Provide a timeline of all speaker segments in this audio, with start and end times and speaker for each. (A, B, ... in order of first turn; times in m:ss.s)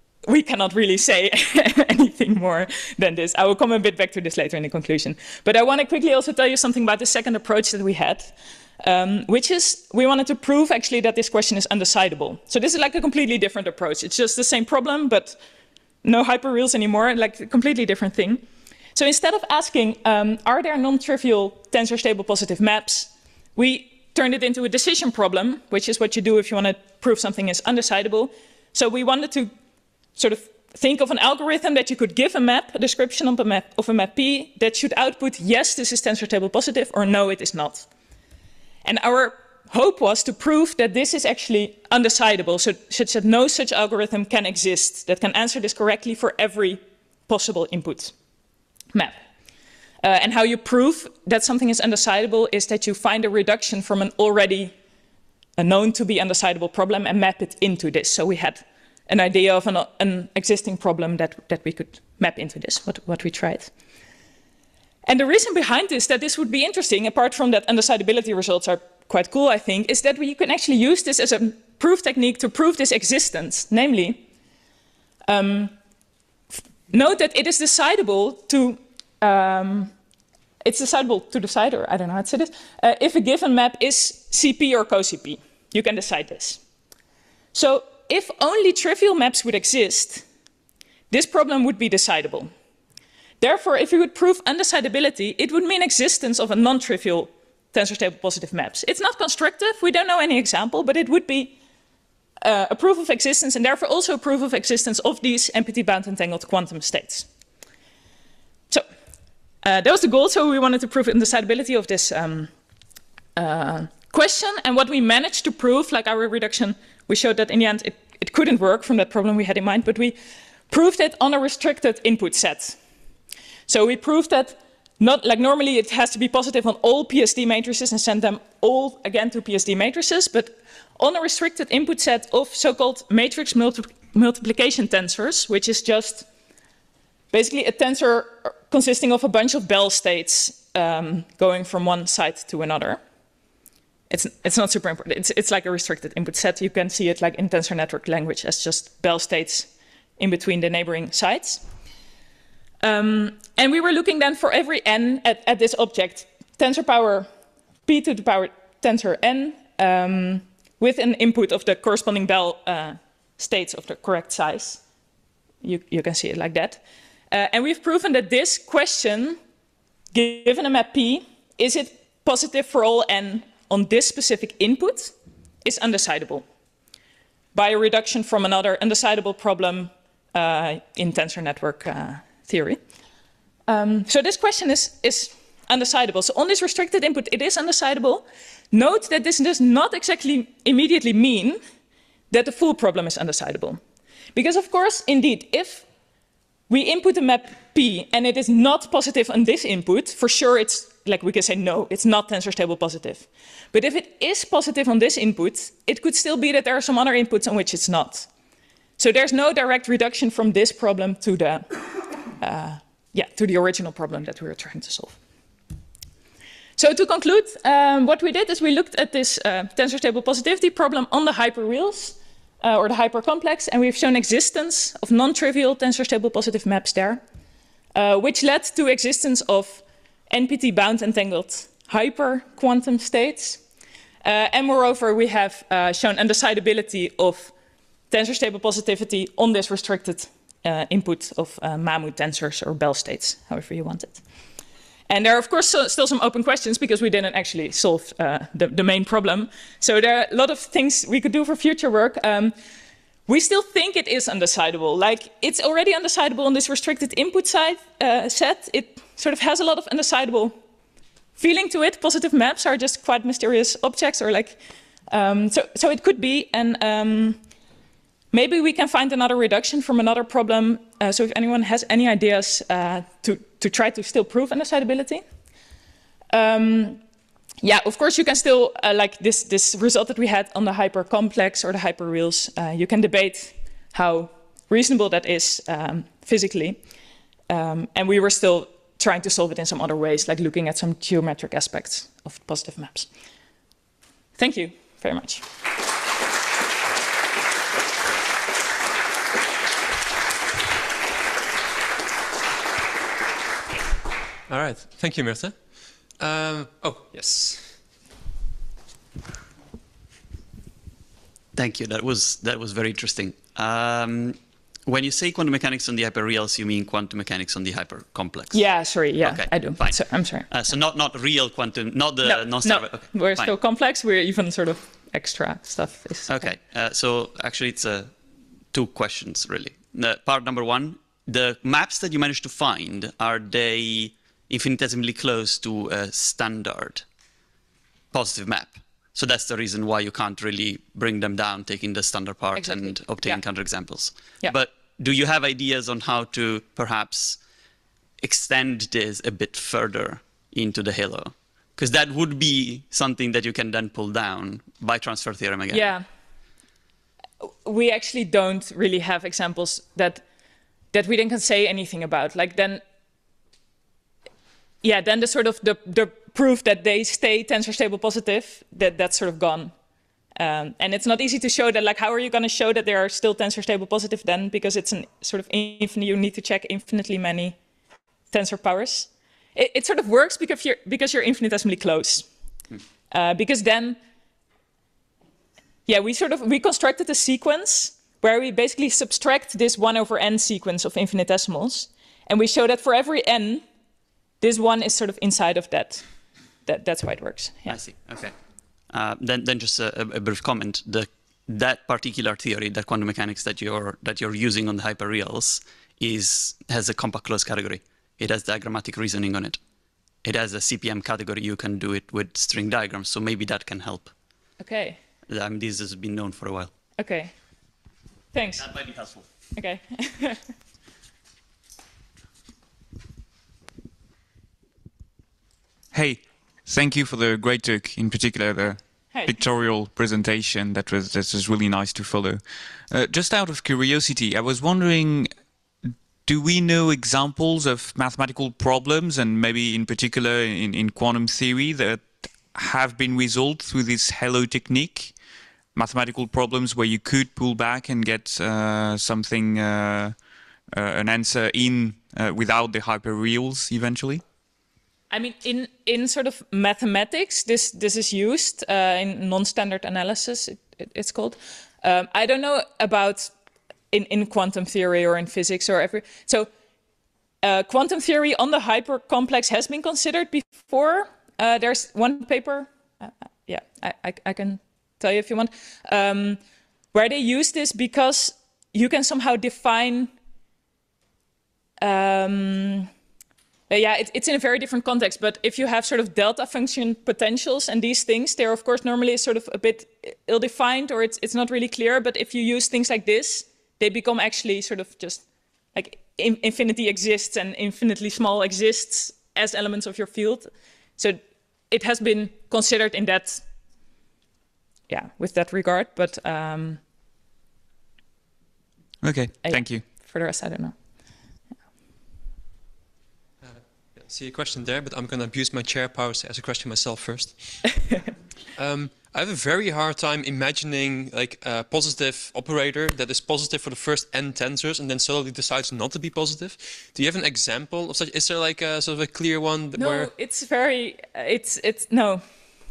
0:00.2-0:15.4 A
0:16.0-0:29.5 A
0:30.2-0:37.9 A
0:38.8-0:48.1 A
0:50.0-0:54.7 A
0:55.6-1:03.7 A
1:05.0-1:14.2 A
1:15.3-1:15.8 A
1:16.9-1:19.9 A
1:20.6-1:26.6 A
1:27.5-1:30.2 A
1:31.1-1:32.5 A
1:33.4-1:41.6 A
1:42.4-1:47.3 A
1:49.6-1:52.5 A
1:53.4-2:00.2 A
2:00.7-2:02.8 A
2:03.7-2:16.3 A
2:17.3-2:23.0 A
2:24.1-2:31.6 A
2:32.8-2:37.3 A
2:37.9-2:44.8 A
2:45.6-2:49.4 A
2:50.1-2:56.4 A
2:57.5-3:02.8 A
3:03.7-3:11.6 A
3:12.3-3:13.8 A
3:14.3-3:15.8 A
3:16.7-3:28.3 A
3:29.0-3:31.9 A
3:32.4-3:35.2 A
3:36.8-3:47.2 A
3:48.0-3:53.6 A
3:54.2-3:57.5 A
3:58.1-4:04.2 A
4:05.1-4:12.6 A
4:13.3-4:20.5 A
4:21.4-4:27.4 A
4:28.3-4:35.2 A
4:36.3-4:37.0 A
4:37.6-4:46.8 A
4:47.5-4:53.1 A
4:54.4-4:55.4 A
5:04.5-5:07.8 B
5:11.6-5:18.6 C
5:18.5-5:20.5 A
5:19.2-5:23.5 C
5:22.2-5:26.4 A
5:26.3-5:28.2 C
5:28.7-5:37.0 C
5:38.1-5:47.4 C
5:42.6-5:43.4 A
5:48.2-5:55.9 C
5:55.7-5:56.0 A
5:57.4-6:00.2 A
6:00.9-6:02.8 A
6:04.8-6:09.7 A
6:10.4-6:17.6 A
6:18.3-6:22.3 A
6:23.1-6:24.0 A
6:25.9-6:33.6 A
6:34.4-6:36.0 A
6:36.7-6:37.8 A
6:37.7-6:38.3 C
6:38.9-6:49.6 C
6:50.2-6:54.1 C
6:54.6-6:55.0 A
6:55.3-6:56.7 C
6:57.0-6:57.3 A
6:58.3-6:58.7 A
6:58.6-6:59.3 C
6:59.6-7:00.4 A
7:05.9-7:15.3 D
7:09.1-7:09.4 A
7:16.3-7:25.2 D
7:25.8-7:30.2 D
7:30.7-7:34.2 D
7:35.1-7:43.3 A
7:43.9-7:46.5 A
7:47.4-7:56.4 A
7:56.9-8:00.1 A
8:01.8-8:02.9 A
8:03.7-8:23.4 A
8:24.9-8:26.8 A
8:29.0-8:29.9 D
8:29.4-8:30.8 A
8:33.4-8:37.8 B
8:38.6-8:50.1 B
8:49.8-8:52.2 A